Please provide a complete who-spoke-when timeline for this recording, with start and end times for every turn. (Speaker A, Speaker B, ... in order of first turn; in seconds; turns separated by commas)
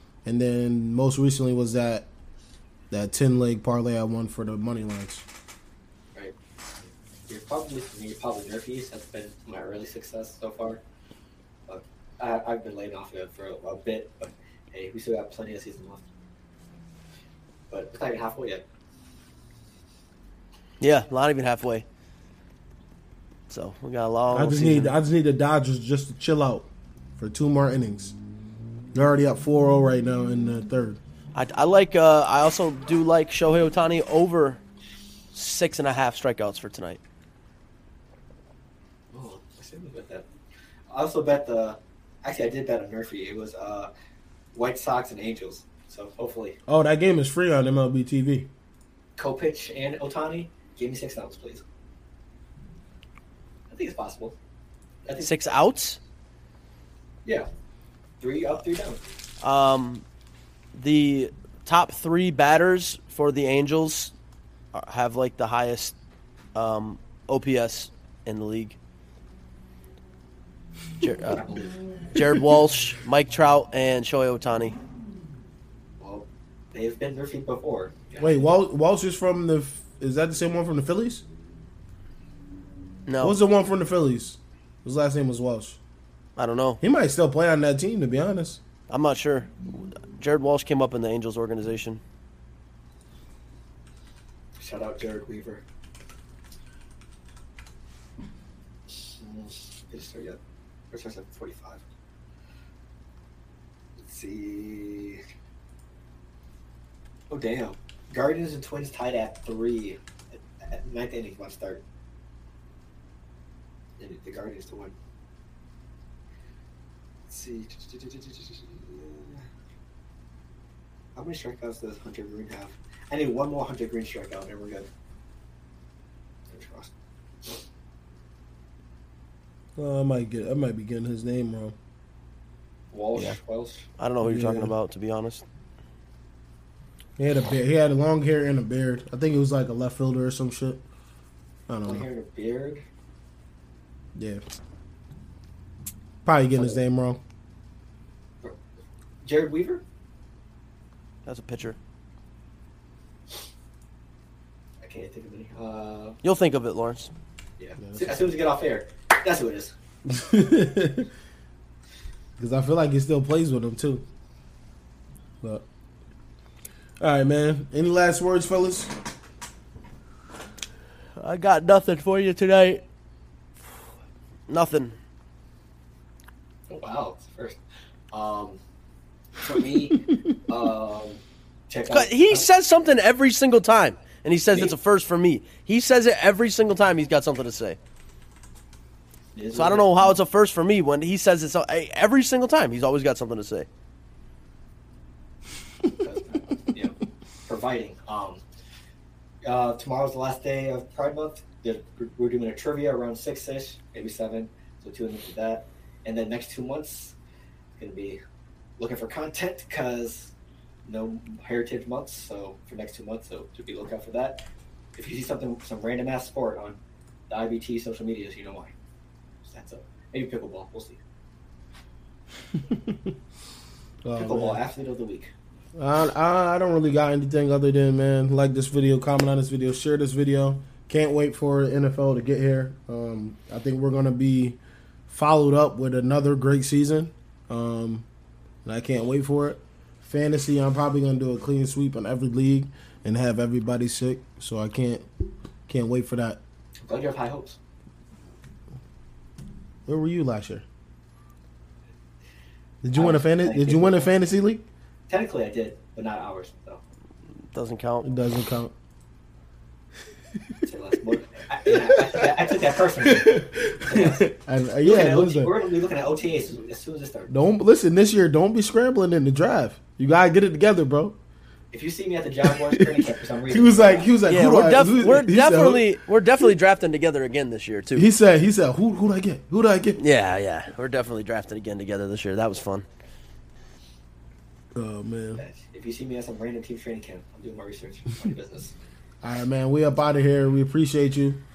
Speaker A: 0.2-2.1, Speaker A: 2.9-5.3, Speaker B: 7.3-10.8, Speaker B: 11.7-16.1, Speaker B: 17.7-18.6, Speaker C: 20.8-21.9, Speaker C: 23.5-24.9, Speaker A: 24.3-26.7, Speaker A: 27.2-28.1, Speaker A: 28.9-31.0, Speaker C: 31.4-34.6, Speaker C: 35.3-37.0, Speaker B: 39.1-40.3, Speaker B: 40.9-43.9, Speaker B: 44.5-46.6, Speaker A: 46.7-48.5, Speaker B: 49.2-51.6, Speaker B: 53.7-54.4, Speaker B: 55.0-55.5, Speaker C: 55.2-56.0, Speaker B: 58.2-59.0, Speaker C: 59.4-60.0, Speaker C: 60.7-64.1, Speaker C: 64.7-66.0, Speaker C: 66.5-68.8, Speaker C: 71.0-71.5, Speaker B: 71.3-71.8, Speaker C: 72.1-74.8, Speaker B: 76.0-78.4, Speaker A: 78.2-81.2, Speaker C: 83.1-83.4, Speaker A: 83.2-85.8, Speaker C: 86.4-86.8, Speaker A: 86.8-88.6, Speaker C: 88.9-92.0, Speaker B: 94.6-95.6, Speaker B: 98.9-100.4, Speaker B: 100.9-101.8, Speaker B: 104.0-105.2, Speaker B: 107.3-111.8, Speaker B: 114.0-115.0, Speaker B: 117.3-119.5, Speaker B: 121.2-124.9, Speaker B: 126.5-126.9, Speaker A: 129.8-131.8, Speaker B: 132.9-133.9, Speaker C: 134.0-135.4, Speaker A: 134.2-134.7, Speaker A: 137.2-140.8, Speaker A: 141.7-142.1, Speaker B: 141.8-142.8, Speaker A: 144.2-144.4, Speaker A: 146.2-147.2, Speaker B: 149.2-149.8, Speaker C: 151.3-151.8, Speaker B: 154.8-156.2, Speaker C: 156.2-157.1, Speaker B: 157.6-159.7, Speaker A: 157.8-158.3, Speaker A: 160.1-161.1, Speaker A: 162.4-164.0, Speaker A: 167.0-168.9, Speaker C: 171.2-172.8, Speaker C: 174.5-175.0, Speaker B: 176.7-177.6, Speaker B: 178.1-178.6, Speaker B: 179.4-182.5, Speaker C: 181.9-187.8, Speaker B: 189.3-190.2, Speaker C: 189.5-193.7, Speaker B: 195.9-196.9, Speaker B: 197.5-198.4, Speaker B: 199.4-207.2, Speaker B: 207.8-208.2, Speaker B: 208.8-210.3, Speaker B: 210.8-214.4, Speaker B: 214.9-216.8, Speaker B: 217.3-218.7, Speaker B: 219.4-221.0, Speaker A: 222.5-223.2, Speaker A: 224.0-224.6, Speaker B: 224.2-225.3, Speaker A: 225.8-238.1, Speaker A: 238.6-245.1, Speaker A: 245.7-246.4, Speaker B: 246.8-247.6, Speaker A: 249.9-250.6, Speaker A: 252.8-254.7, Speaker B: 252.9-254.1, Speaker B: 255.1-256.8, Speaker C: 257.5-258.1, Speaker A: 258.0-258.7, Speaker B: 260.6-264.2, Speaker A: 261.7-262.5, Speaker A: 263.0-265.5, Speaker B: 264.8-267.3, Speaker A: 267.3-271.2, Speaker B: 271.7-274.1, Speaker A: 272.5-276.5, Speaker C: 274.3-278.1, Speaker A: 277.9-280.0, Speaker C: 280.0-282.9, Speaker A: 284.8-285.4, Speaker B: 285.4-288.8, Speaker A: 289.2-291.4